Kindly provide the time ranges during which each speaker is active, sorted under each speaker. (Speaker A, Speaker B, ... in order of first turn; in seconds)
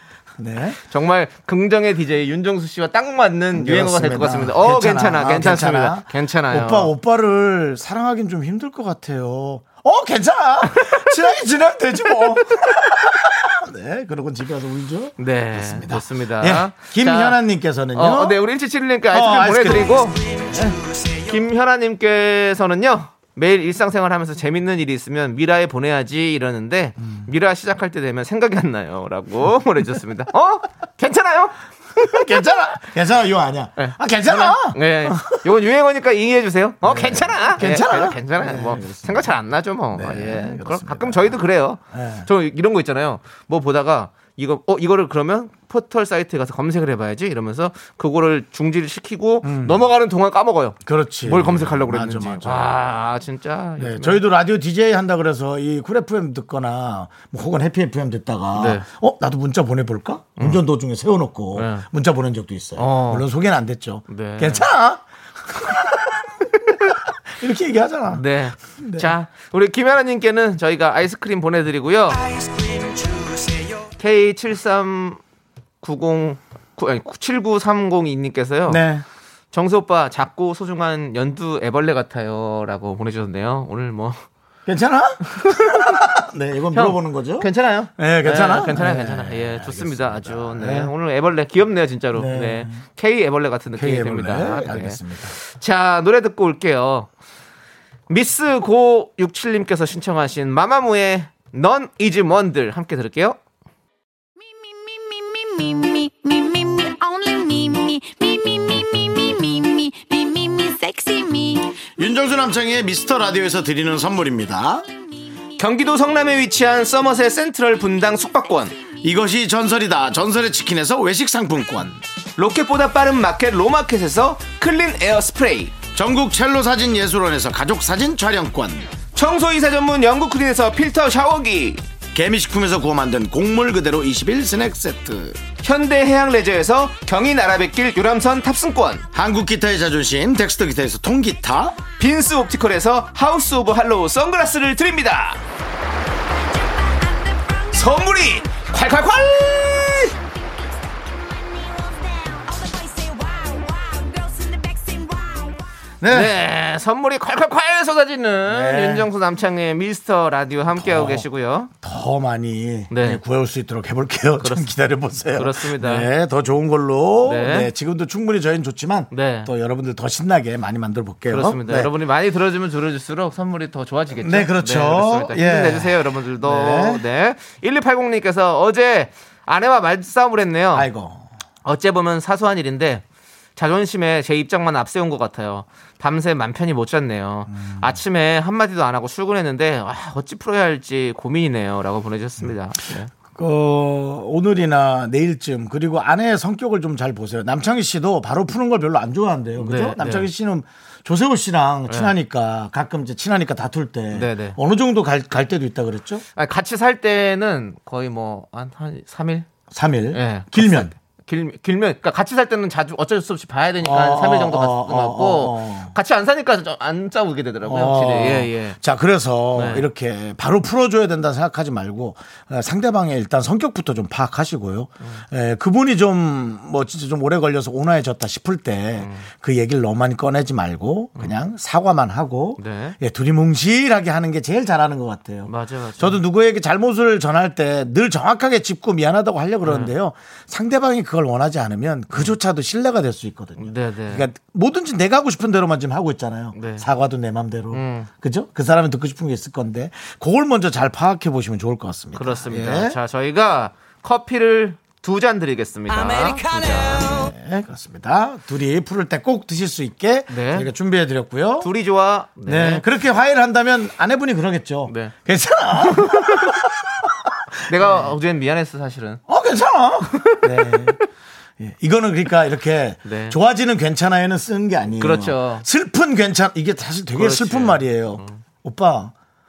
Speaker A: 0.4-0.8, 3.5-18.4, 19.1-20.8, 32.0-35.4, 36.8-39.3, 39.9-41.4, 41.9-42.3, 49.4-49.8, 50.9-52.8, 53.8-66.2, 67.4-68.2, 68.8-69.1, 78.7-79.0, 84.7-90.9, 92.1-92.8, 93.7-95.3, 112.0-114.8, 119.0-122.0, 125.9-128.9, 132.1-135.4, 139.1-141.8, 156.0-156.3, 158.5-159.1, 160.8-161.3, 161.8-171.9, 174.2-177.0, 180.7-181.3, 187.5-187.9, 193.3-206.2, 209.7-210.9, 213.8-215.9, 217.6-253.0, 257.2-261.7, 262.5-266.6, 267.7-268.1, 269.3-271.0, 271.6-279.1
Speaker B: 0.9-6.9, 15.2-17.4, 17.9-20.2, 21.3-31.6, 33.8-54.2, 58.5-58.9, 61.6-61.9, 62.8-63.2, 64.1-64.7, 68.1-72.2, 74.0-75.2, 75.8-78.8, 79.5-84.2, 86.7-97.1, 98.1-103.4, 115.6-118.8, 122.4-125.7, 129.1-131.8, 135.6-139.1, 142.0-145.4, 147.7-150.1, 156.1-161.7, 162.9-163.2, 164.4-164.7, 165.3-166.1, 167.2-167.7, 169.1-169.5, 171.3-180.9, 181.7-183.0, 183.6-193.1, 199.6-200.3, 201.9-202.1, 204.1-204.6, 206.4-209.5, 210.1-218.8, 219.5-219.8, 229.0-229.2, 232.6-233.0, 235.5-236.2, 239.6-239.9, 243.6-244.2, 246.5-246.9, 247.7-248.1, 252.2-257.2, 260.3-260.7, 261.6-262.8, 264.9-265.1, 267.7-269.2, 270.2-270.8, 273.0-273.4, 275.0-275.7, 277.1-278.4
Speaker C: 104.5-111.9, 146.4-147.7, 151.3-155.6